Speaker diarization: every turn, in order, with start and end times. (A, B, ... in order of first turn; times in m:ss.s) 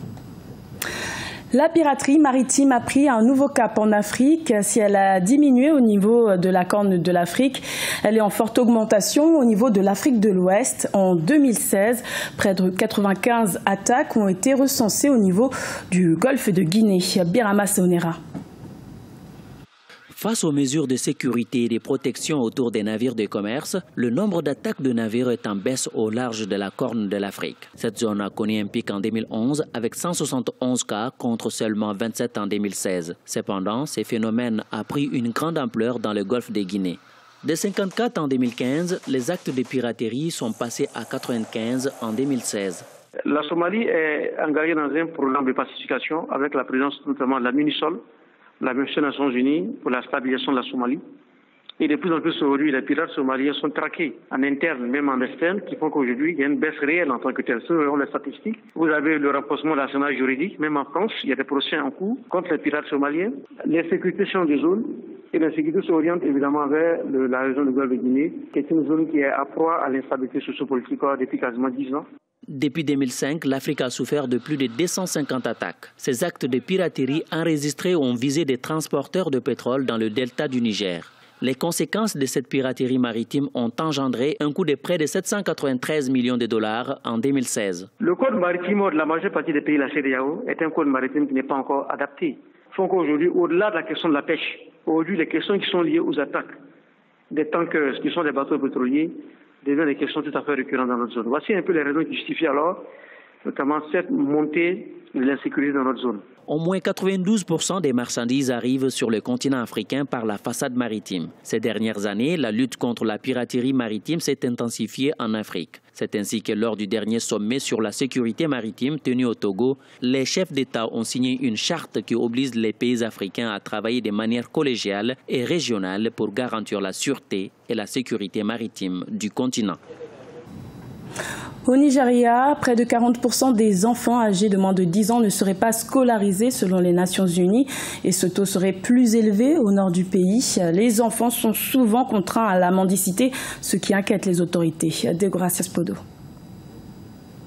0:01.5-0:18.2 A
0:20.1-0:42.8 B
0:43.3-0:48.0 C
0:48.6-0:51.0 C
0:51.8-1:12.0 C
1:12.5-1:27.9 B
1:28.0-1:36.5 C
1:37.3-1:42.8 C
1:43.4-1:46.2 C
1:46.5-2:09.8 B
2:11.7-2:26.0 A